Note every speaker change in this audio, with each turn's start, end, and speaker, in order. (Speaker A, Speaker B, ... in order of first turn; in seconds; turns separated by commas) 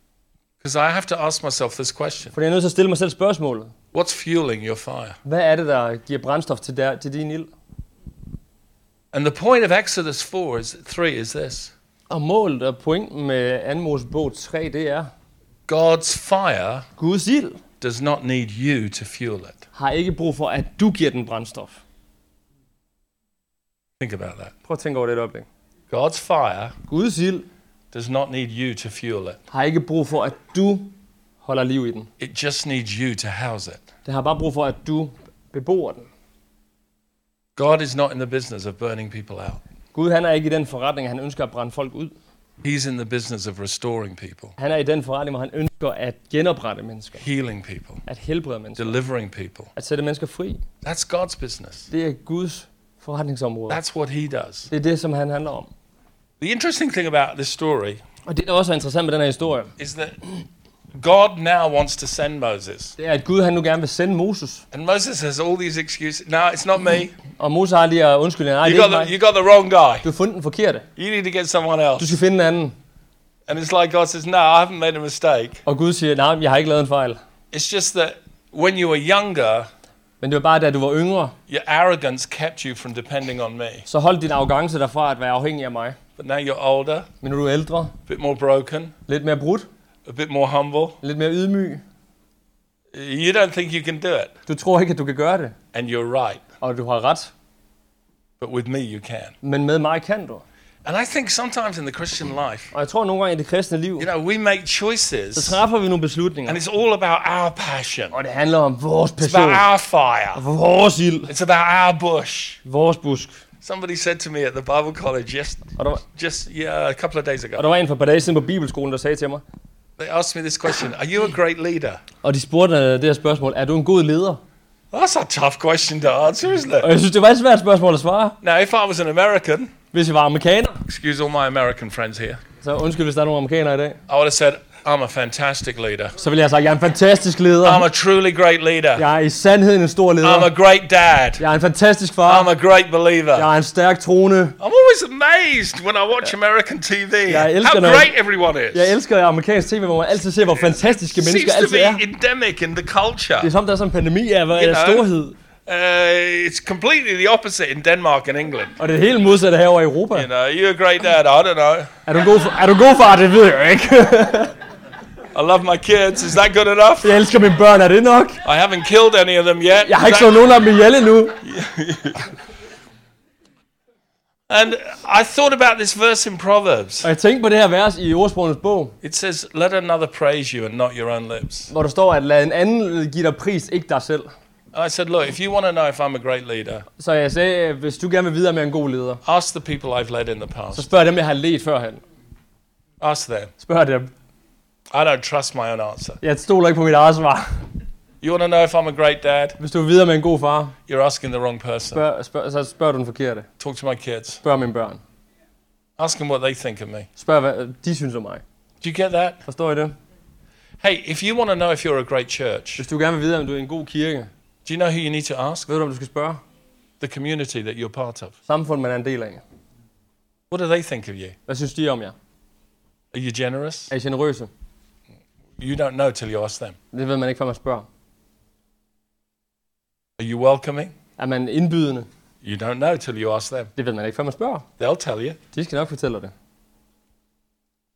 Speaker A: 0.6-2.3, Speaker B: 2.3-3.7, Speaker A: 3.9-5.2, Speaker B: 5.2-7.5, Speaker A: 9.1-11.7, Speaker B: 12.1-15.1, Speaker A: 15.7-16.9, Speaker B: 17.0-17.6, Speaker A: 17.8-19.6, Speaker B: 19.8-21.8, Speaker A: 24.0-24.5, Speaker B: 24.7-25.5, Speaker A: 25.9-26.7, Speaker B: 26.9-27.5, Speaker A: 27.9-29.4, Speaker B: 29.5-30.9, Speaker B: 31.4-32.1, Speaker A: 32.2-33.9, Speaker B: 34.1-36.1, Speaker A: 37.6-39.6, Speaker B: 39.9-42.1, Speaker A: 42.6-44.5, Speaker B: 44.6-47.2, Speaker A: 47.2-48.0, Speaker B: 48.1-48.9, Speaker A: 48.8-49.7, Speaker B: 49.8-50.6, Speaker A: 50.8-51.9, Speaker B: 51.9-53.8, Speaker A: 53.7-54.7, Speaker B: 54.7-55.7, Speaker A: 56.4-58.0, Speaker B: 58.3-59.7, Speaker A: 59.8-60.2, Speaker A: 61.0-63.0, Speaker B: 63.0-64.6, Speaker A: 64.7-67.2, Speaker B: 67.4-69.1, Speaker A: 68.6-70.1, Speaker B: 70.0-70.9, Speaker A: 71.0-72.2, Speaker B: 72.0-72.8, Speaker A: 73.5-75.6, Speaker B: 75.7-77.2, Speaker A: 77.5-79.7, Speaker B: 80.2-81.4, Speaker A: 81.5-83.9, Speaker B: 83.9-86.0, Speaker A: 86.2-87.1, Speaker B: 87.2-88.0, Speaker A: 88.1-89.0, Speaker B: 89.1-89.7, Speaker A: 90.1-91.0, Speaker B: 91.0-91.8, Speaker A: 92.9-94.3, Speaker B: 94.5-95.5, Speaker A: 95.7-96.4, Speaker B: 96.6-97.3, Speaker A: 98.4-99.3, Speaker B: 99.4-100.4, Speaker A: 100.8-102.7, Speaker B: 102.7-104.1, Speaker A: 104.0-105.6, Speaker B: 105.3-106.6, Speaker A: 106.5-108.2, Speaker B: 108.1-109.7, Speaker A: 109.2-110.4, Speaker B: 110.3-111.3, Speaker A: 111.3-112.6, Speaker B: 112.7-113.4, Speaker A: 113.6-117.7, Speaker B: 115.8-116.0, Speaker B: 117.6-119.4, Speaker A: 120.0-122.0, Speaker B: 122.2-124.4, Speaker A: 124.9-126.9, Speaker B: 126.8-128.4, Speaker A: 128.4-129.7, Speaker B: 129.9-130.8, Speaker A: 130.9-132.4, Speaker B: 132.6-134.0, Speaker A: 134.1-136.2, Speaker B: 136.2-137.9, Speaker A: 137.6-139.1, Speaker B: 139.0-140.5, Speaker A: 140.2-141.4, Speaker B: 141.4-142.5, Speaker A: 142.3-143.5, Speaker B: 143.3-144.6, Speaker A: 144.6-149.0, Speaker B: 147.3-148.1, Speaker B: 148.7-152.0, Speaker A: 150.6-153.5, Speaker B: 153.4-155.3, Speaker A: 154.5-155.1, Speaker A: 155.7-158.8, Speaker B: 158.8-160.3, Speaker A: 160.1-161.9, Speaker B: 162.1-164.6, Speaker A: 165.3-167.2, Speaker B: 167.0-168.4, Speaker A: 168.4-170.5, Speaker B: 169.8-171.4, Speaker A: 171.4-172.3, Speaker A: 174.5-177.1, Speaker B: 177.0-179.0, Speaker A: 179.0-181.7, Speaker B: 181.7-184.3, Speaker A: 184.7-186.8, Speaker B: 187.0-189.2, Speaker A: 189.2-190.9, Speaker B: 190.7-192.0, Speaker A: 193.0-193.5, Speaker B: 193.6-194.1, Speaker A: 194.9-196.2, Speaker B: 196.2-197.7, Speaker A: 198.2-199.6, Speaker B: 199.6-200.8, Speaker A: 200.9-202.0, Speaker B: 201.9-203.5, Speaker A: 203.6-204.4, Speaker B: 204.4-205.0, Speaker A: 206.0-207.1, Speaker B: 207.2-208.4, Speaker A: 208.8-209.4, Speaker B: 209.5-209.9, Speaker A: 210.8-212.8, Speaker B: 212.8-214.3, Speaker A: 214.7-215.7, Speaker B: 215.7-216.4, Speaker A: 217.0-218.3, Speaker B: 218.5-219.4, Speaker A: 220.5-221.4, Speaker B: 221.5-222.2, Speaker A: 223.1-223.9, Speaker B: 223.9-224.5, Speaker A: 225.6-226.8, Speaker B: 226.9-227.9, Speaker A: 230.2-230.9, Speaker B: 231.2-232.1, Speaker A: 232.4-233.7, Speaker B: 233.8-234.7, Speaker A: 234.8-235.4, Speaker B: 235.5-236.3